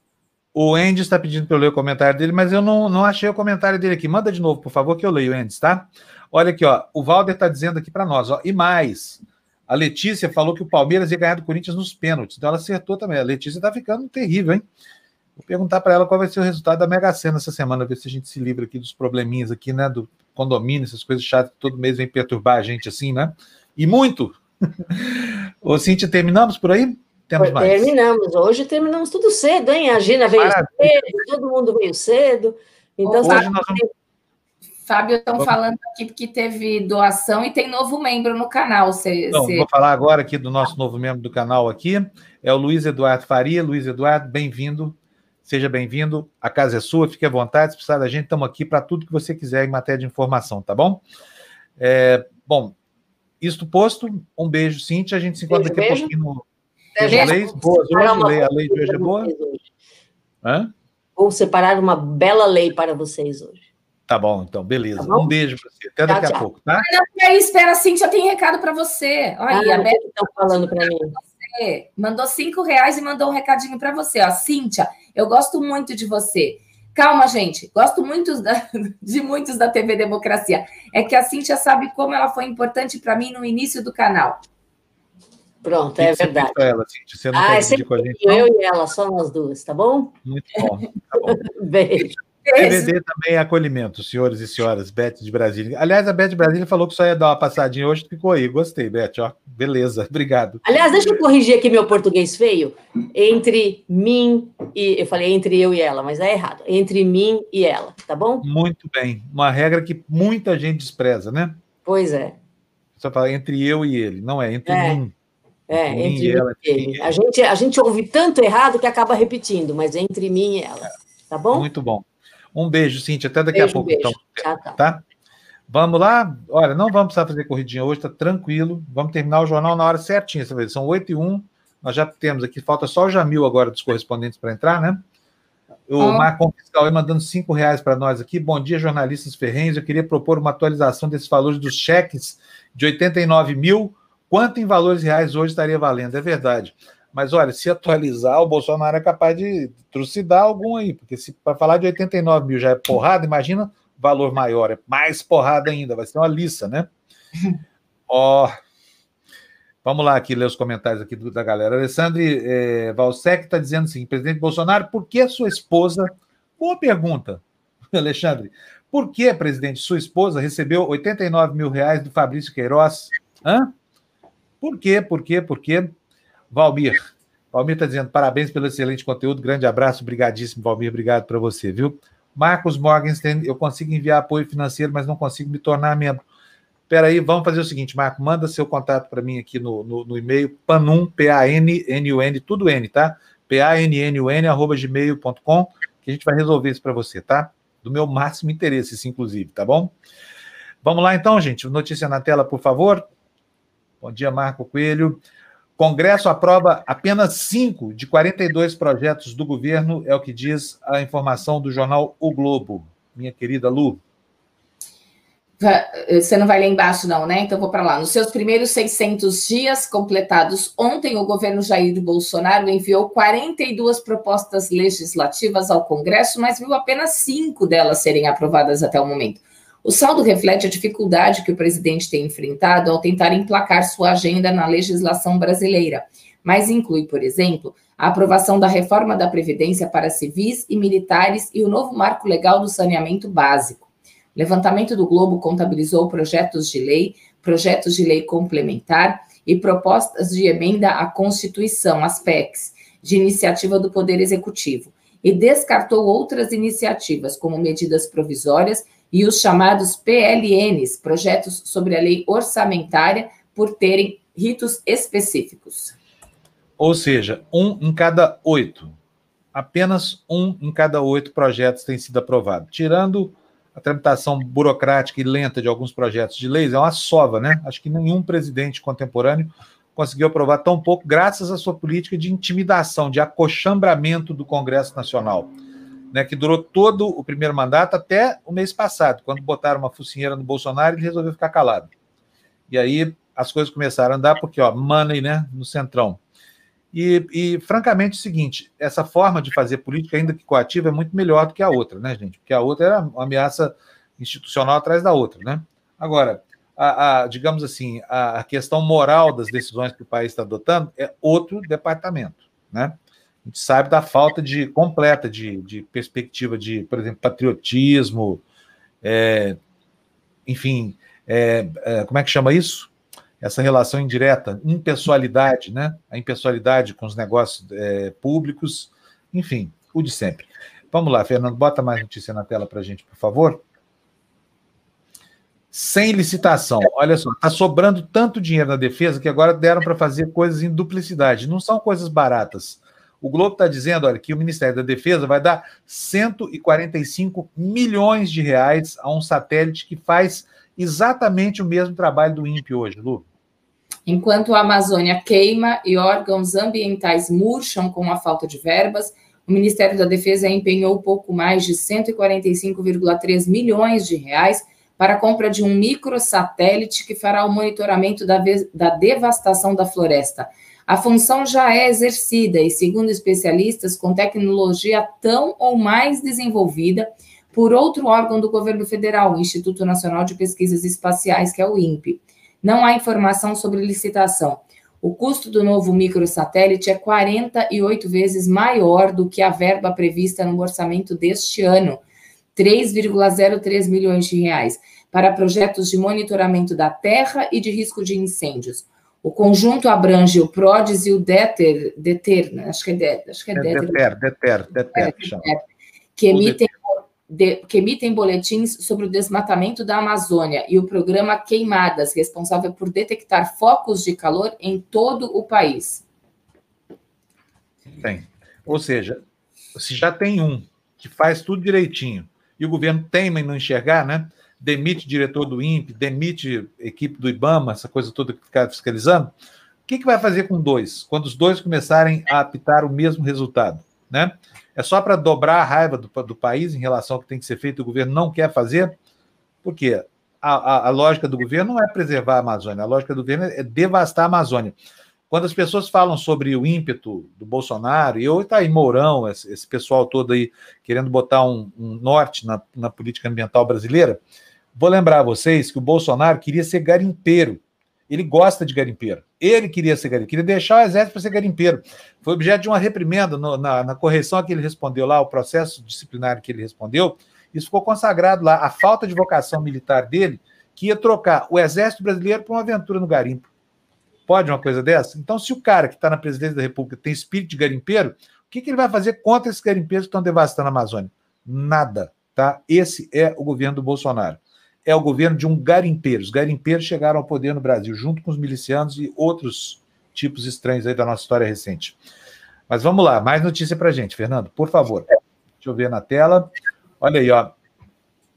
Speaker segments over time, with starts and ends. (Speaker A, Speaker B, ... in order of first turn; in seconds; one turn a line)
Speaker A: 0.5-14.6
Speaker A: 15.4-27.9
Speaker B: 27.4-33.9
Speaker A: 30.4-31.2
Speaker C: 33.0-33.5
Speaker A: 33.2-33.8
Speaker C: 34.9-39.7
Speaker A: 39.3-51.0
Speaker A: 51.8-52.7
Speaker A: 53.4-56.4
Speaker B: 55.5-56.1
Speaker A: 57.0-59.3
Speaker B: 57.0-59.6
Speaker C: 57.1-57.4
Speaker A: 60.4-60.7
Speaker B: 61.1-63.6
Speaker A: 64.1-66.8
Speaker B: 65.0-65.3
Speaker B: 66.1-66.4
Speaker C: 66.8-84.4
Speaker B: 69.5-71.1
Speaker B: 85.6-86.5
Speaker A: 86.0-88.5
Speaker B: 87.3-90.2
Speaker A: 90.2-91.4
Speaker B: 91.2-92.2
Speaker C: 92.5-92.9
Speaker A: 92.5-100.7
Speaker B: 100.6-108.4
Speaker A: 108.4-111.6
Speaker B: 111.8-112.4
Speaker A: 113.0-115.1
Speaker B: 114.7-115.0
Speaker B: 115.7-121.7
Speaker A: 115.7-117.1
Speaker A: 121.5-125.0
Speaker B: 123.5-124.8
Speaker A: 125.7-135.0
Speaker A: 135.9-156.9
Speaker C: 136.0-136.3
Speaker A: 158.1-158.5
Speaker A: 159.8-167.4
Speaker A: 167.9-173.7
Speaker A: 174.6-175.9
Speaker A: 176.5-177.0
Speaker A: 177.5-186.2
Speaker A: 186.9-199.9
Speaker A: 200.8-203.0
Speaker A: 204.0-205.2
Speaker A: 205.8-214.0
Speaker C: 215.6-265.9
Speaker A: 266.8-268.9
Speaker A: 269.5-285.5
Speaker A: 286.1-291.9
Speaker A: 292.7-296.2
Speaker A: 296.9-318.4
Speaker A: 319.0-319.6
Speaker A: 320.4-333.6
Speaker A: 335.7-353.2
Speaker C: 354.1-392.0
Speaker C: 392.5-404.0
Speaker A: 403.5-405.5
Speaker C: 404.9-405.6
Speaker C: 406.2-416.0
Speaker A: 406.3-406.6
Speaker A: 418.0-419.2
Speaker A: 419.7-429.3
Speaker A: 429.9-438.9
Speaker A: 439.6-444.8
Speaker A: 445.3-454.2
Speaker A: 454.7-473.5
Speaker A: 474.3-492.0
Speaker A: 492.7-495.1
Speaker A: 495.6-497.5